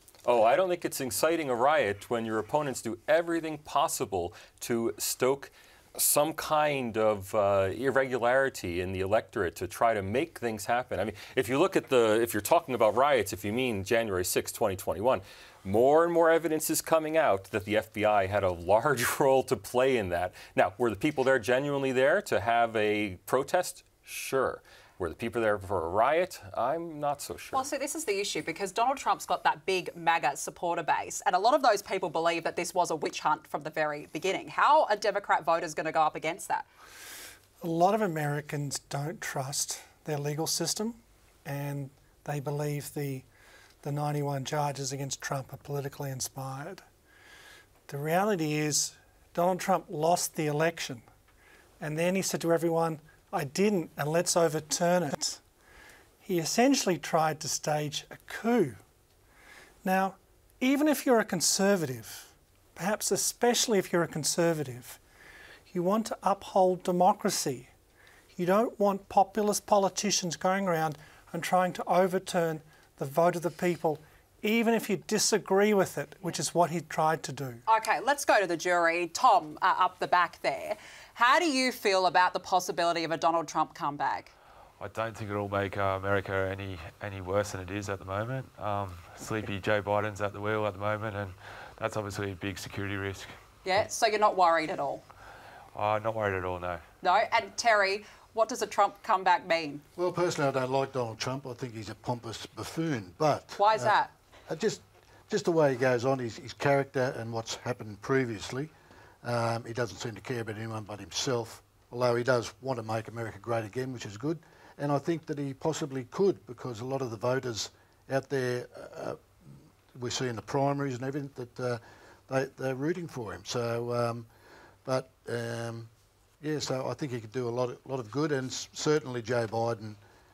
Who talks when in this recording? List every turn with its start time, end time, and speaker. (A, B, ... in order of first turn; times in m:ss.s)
0:00.2-0:27.7 A
0:27.5-0:36.7 B
0:37.6-0:43.2 C
0:43.8-0:46.8 C
0:47.9-0:51.0 C
0:51.8-0:55.4 C
0:56.2-0:58.8 C
0:59.8-1:05.0 C
1:05.7-1:07.7 C
1:08.3-1:17.6 C
1:17.7-1:24.3 B
1:24.8-1:33.3 D
1:33.6-1:35.0 B
1:35.7-1:36.8 D
1:37.0-1:39.8 B
1:40.0-1:48.7 E
1:43.6-1:44.1 B
1:49.2-1:59.2 E
1:59.9-2:04.3 E
2:04.8-2:05.9 E
2:06.4-2:10.0 E